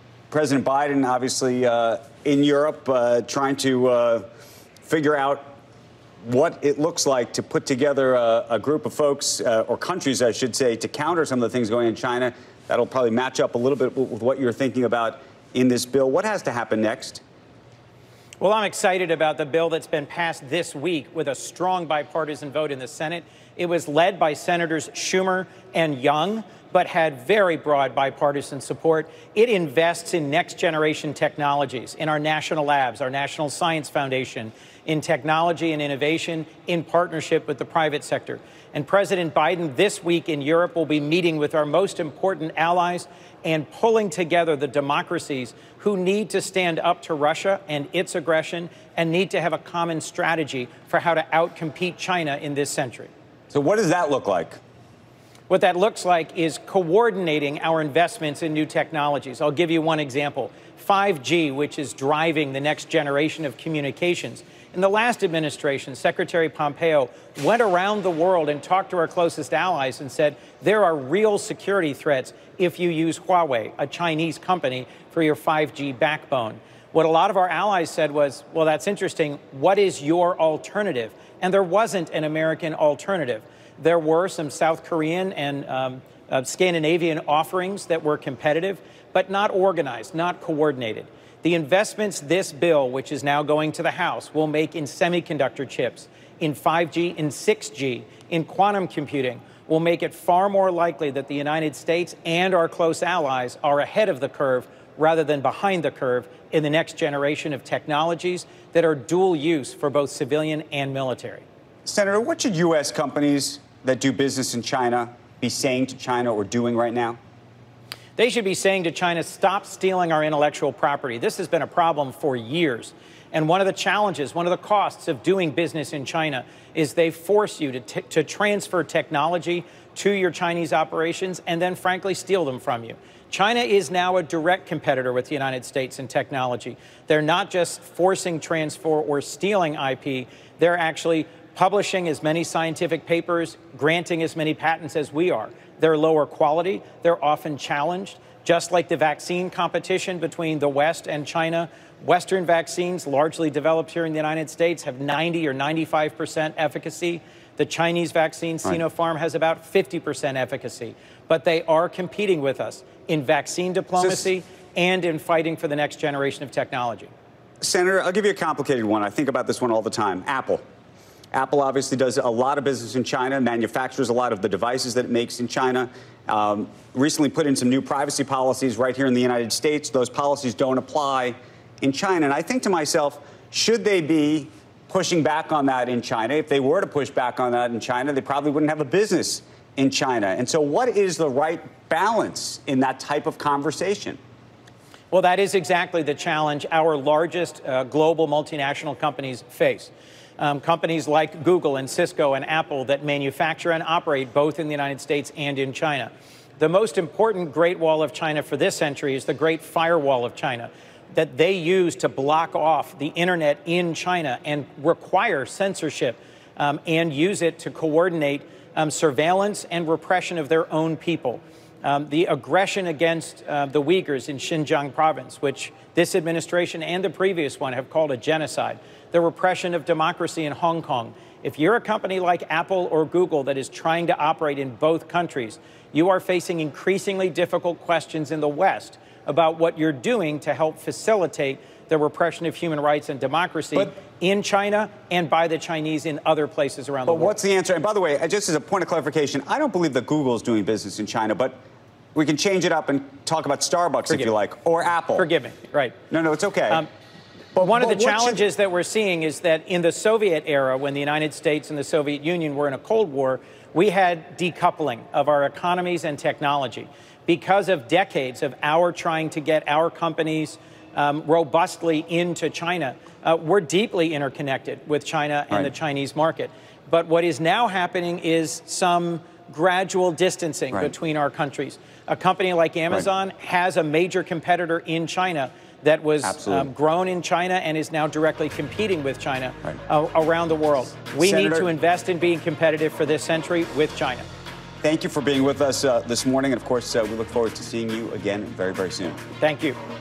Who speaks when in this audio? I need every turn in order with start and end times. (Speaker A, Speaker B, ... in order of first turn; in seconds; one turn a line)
Speaker A: 0.3-4.2
Speaker A: 4.8-5.5
Speaker A: 6.2-17.2
Speaker B: 18.4-53.1
Speaker A: 53.5-54.6
Speaker B: 55.5-111.4
Speaker A: 111.8-117.2
Speaker B: 118.2-167.1
Speaker A: 164.0-164.3
Speaker A: 167.6-170.6
Speaker A: 171.3-194.2
Speaker B: 195.1-247.3
Speaker A: 247.1-251.6
Speaker A: 252.1-255.2
Speaker B: 254.1-254.3
Speaker B: 255.2-256.0
Speaker A: 256.1-256.9
Speaker A: 257.6-258.4
Speaker B: 257.6-294.2
Speaker A: 286.2-286.7
Speaker A: 291.2-291.7
Speaker A: 294.8-299.2
Speaker B: 299.4-299.8